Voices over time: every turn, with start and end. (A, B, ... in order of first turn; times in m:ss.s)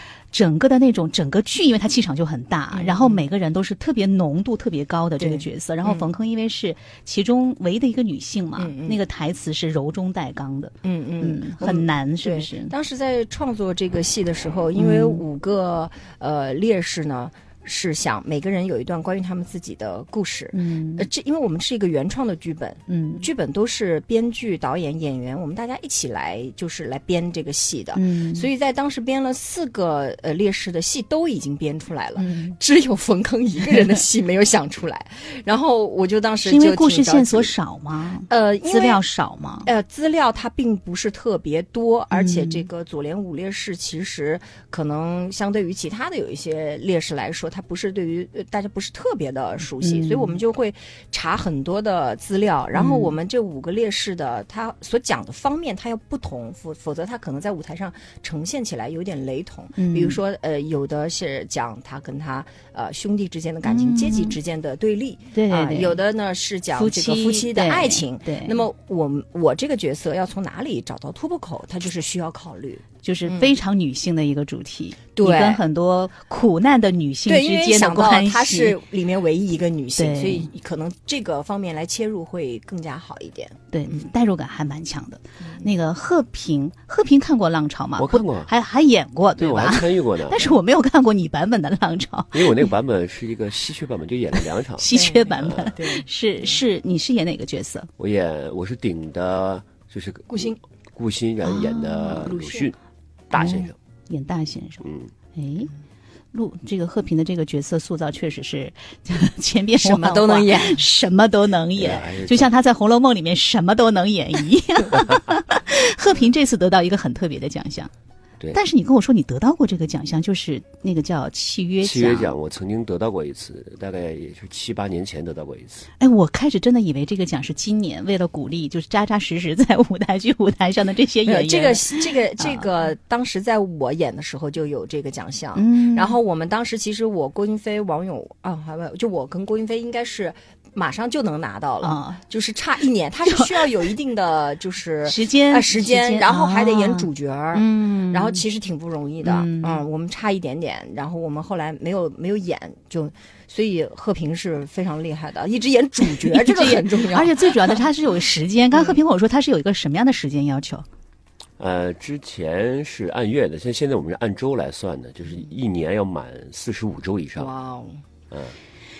0:00.3-0:12.7 A
0:02.7-0:03.2 B
0:05.2-0:06.1 B
0:08.6-0:09.0 B
0:10.8-0:37.5 B
0:14.8-0:15.2 A
0:20.5-0:21.1 A
0:22.9-0:23.2 A
0:27.9-0:28.5 A
0:32.2-0:32.6 A
0:36.4-0:39.7 A
0:38.3-0:39.0 B
0:39.6-1:13.5 B
0:42.1-0:42.6 A
0:49.8-0:50.4 A
0:52.7-0:53.1 A
0:59.8-1:00.2 A
1:03.6-1:04.3 A
1:05.3-1:06.0 A
1:06.7-1:08.6 A
1:13.0-1:18.8 A
1:15.2-1:15.6 B
1:17.2-1:24.0 B
1:20.0-1:20.5 A
1:23.7-1:32.6 A
1:25.4-1:25.7 B
1:28.0-1:28.5 C
1:29.4-1:30.5 C
1:32.3-1:35.7 C
1:34.8-1:37.9 A
1:34.9-1:36.6 B
1:38.0-1:42.8 C
1:40.3-1:40.6 B
1:41.5-1:42.3 A
1:42.2-1:42.6 B
1:43.3-1:43.7 C
1:43.3-1:44.8 A
1:44.8-1:45.1 C
1:45.3-1:45.7 A
1:46.3-1:57.9 A
1:49.8-1:50.8 B
1:51.8-1:52.5 C
1:58.5-2:02.3 A
2:01.8-2:05.8 C
2:06.0-2:12.7 A
2:11.2-2:37.8 B
2:15.6-2:16.2 A
2:21.8-2:22.2 A
2:25.0-2:28.4 A
2:29.2-2:29.8 A
2:36.3-2:40.8 A
2:41.6-2:47.5 C
2:47.4-2:48.0 B